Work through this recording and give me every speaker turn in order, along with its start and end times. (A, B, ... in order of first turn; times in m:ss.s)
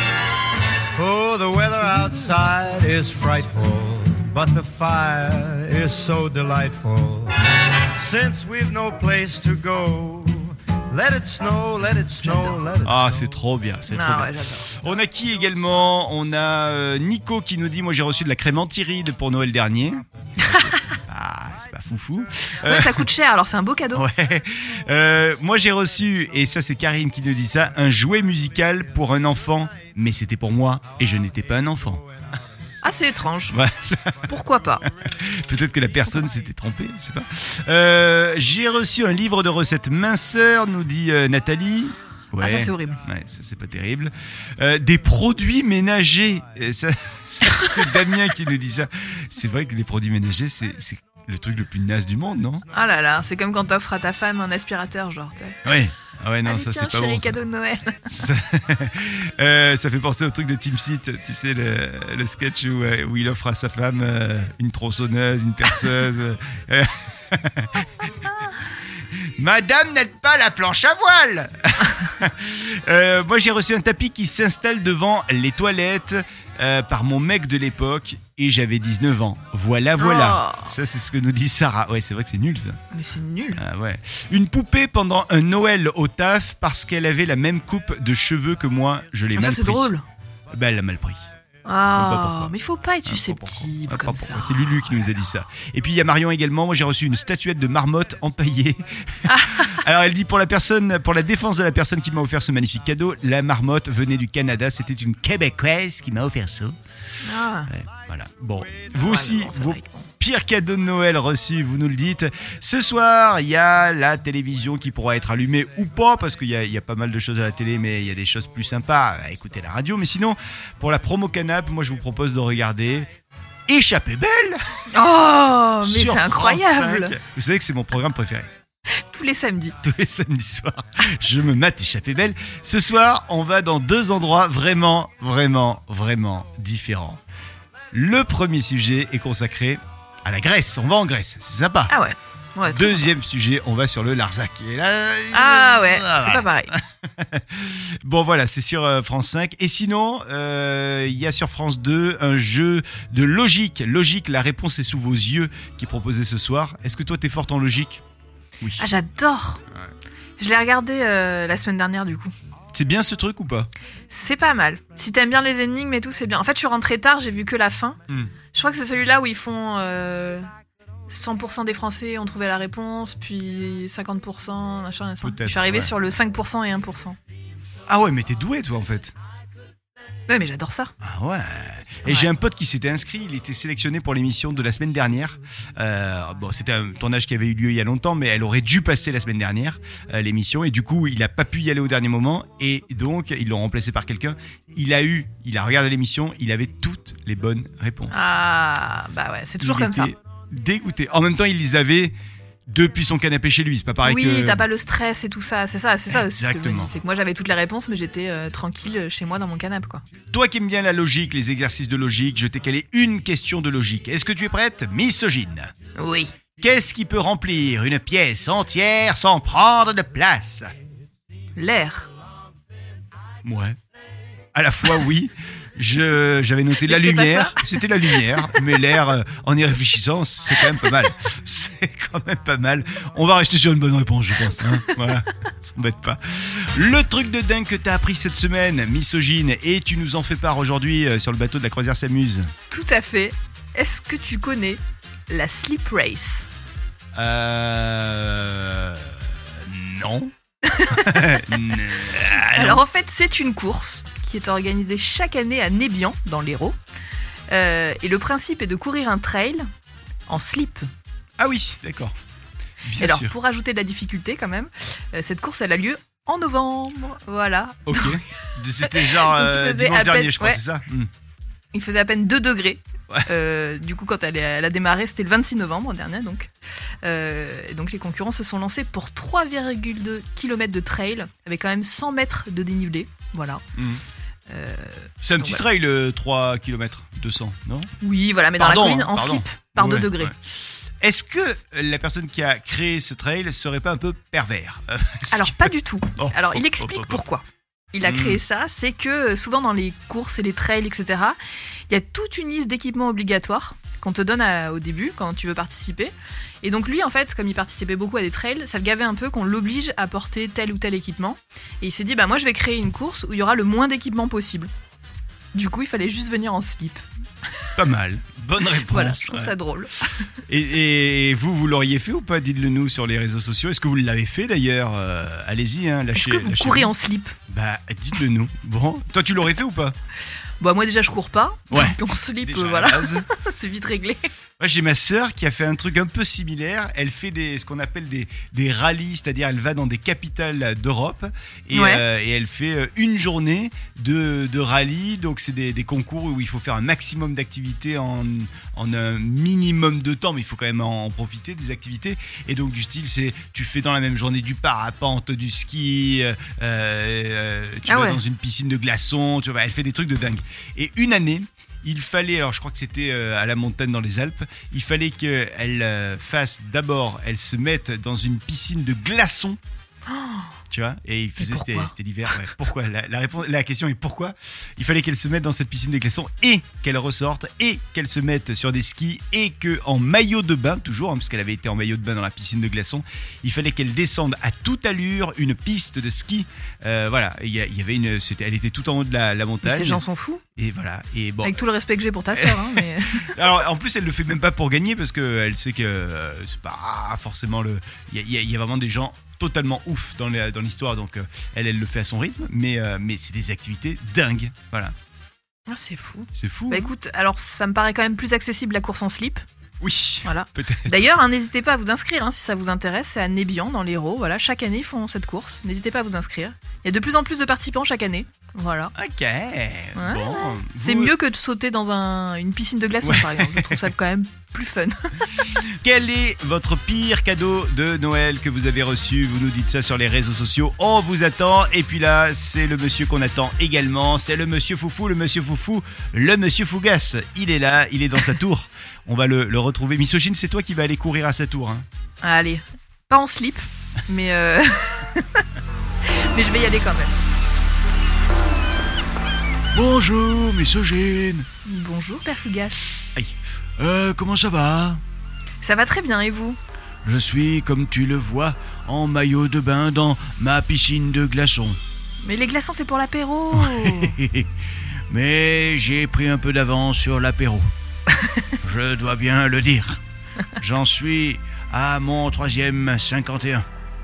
0:01.0-0:07.4 A
0:08.0-0:13.3 A
0:12.2-0:12.6 B
0:12.8-0:23.1 C
0:13.9-0:14.7 B
0:20.4-0:20.8 B
0:22.6-0:24.1 B
0:23.9-0:32.0 C
0:32.8-0:33.6 B
0:33.5-0:34.2 C
0:34.3-0:34.8 B
0:35.0-0:52.6 C
0:42.4-0:43.0 B
0:52.7-0:55.6 B
0:55.6-0:57.4 C
0:56.4-0:58.2 B
0:58.1-1:08.1 C
1:09.1-1:22.8 C
1:20.0-1:20.7 B
1:22.9-1:23.6 B
1:23.6-1:29.9 C
1:29.3-1:30.0 B
1:30.5-1:31.2 C
1:31.6-1:35.0 B
1:31.9-1:46.8 C
1:39.3-1:39.8 B
1:47.2-1:47.7 B
1:47.7-2:03.1 C
1:49.0-1:50.1 B
2:03.7-2:04.6 C
2:04.9-2:07.2 B
2:05.8-2:08.5 C
2:08.9-2:09.8 B
2:09.8-2:17.2 C
2:17.9-2:21.9 C
2:21.9-2:23.1 B
2:22.7-2:38.0 C
2:25.3-2:26.7 B
2:38.8-2:39.6 B
2:40.4-2:42.3 B
2:42.7-2:43.7 C
2:44.1-2:48.0 B
2:48.5-2:50.5 B
2:51.1-2:57.2 B
2:55.2-2:55.9 C
2:57.9-2:59.1 C
3:00.3-3:00.9 B
3:01.0-3:18.3 C
3:18.1-3:20.1 B
3:19.6-3:22.1 C
3:22.7-3:24.6 C
3:24.0-3:30.0 B
3:26.1-3:26.9 C
3:30.3-3:35.7 C
3:36.0-3:36.4 B
3:36.6-3:40.7 C
3:41.6-3:42.1 B
3:43.4-3:43.8 C
3:44.5-4:02.5 C
3:46.8-3:48.6 B
4:02.7-4:06.5 B
4:07.1-4:10.3 C
4:10.7-4:11.4 B
4:10.9-4:12.8 C
4:12.4-4:16.8 B
4:17.5-4:19.7 B
4:20.3-4:20.9 B
4:21.4-4:22.2 C
4:22.8-4:23.3 C
4:23.0-4:28.2 B
4:27.9-4:31.1 C
4:28.8-4:30.6 B
4:31.7-4:36.5 B
4:37.0-4:43.6 B
4:43.8-4:44.0 C
4:44.5-4:45.7 B
4:45.2-4:47.9 C
4:48.0-4:50.3 B
4:48.6-4:57.2 C
4:55.3-5:01.4 B
4:58.0-4:58.4 C
5:01.9-5:14.7 B
5:15.5-5:17.0 B
5:17.8-5:19.6 C
5:18.7-5:20.3 B
5:20.5-5:26.9 C
5:26.1-5:27.4 B
5:27.5-5:30.0 C
5:30.6-5:34.3 B
5:31.7-5:33.3 C
5:34.6-6:09.6 C
5:41.7-5:42.0 B
5:57.9-5:58.2 B
6:10.1-6:10.5 B
6:10.7-6:30.0 C
6:11.4-6:11.9 B
6:29.6-6:30.4 B
6:30.6-6:31.6 C
6:31.4-6:33.4 B
6:32.4-6:45.0 C
6:45.7-6:49.4 B
6:46.4-6:46.9 C
6:49.8-6:51.1 C
6:50.2-6:58.9 B
6:59.0-7:01.1 C
7:00.0-7:05.2 B
7:03.0-7:03.8 C
7:05.5-7:21.9 C
7:22.2-7:25.4 B
7:26.0-7:27.1 B
7:29.7-7:31.5 C
7:31.6-7:32.9 B
7:33.1-7:35.0 C
7:35.6-7:36.6 B
7:37.0-7:41.8 C
7:42.2-7:44.2 B
7:43.5-7:44.5 C
7:45.1-7:47.7 C
7:48.6-7:50.0 C
7:50.6-7:53.6 C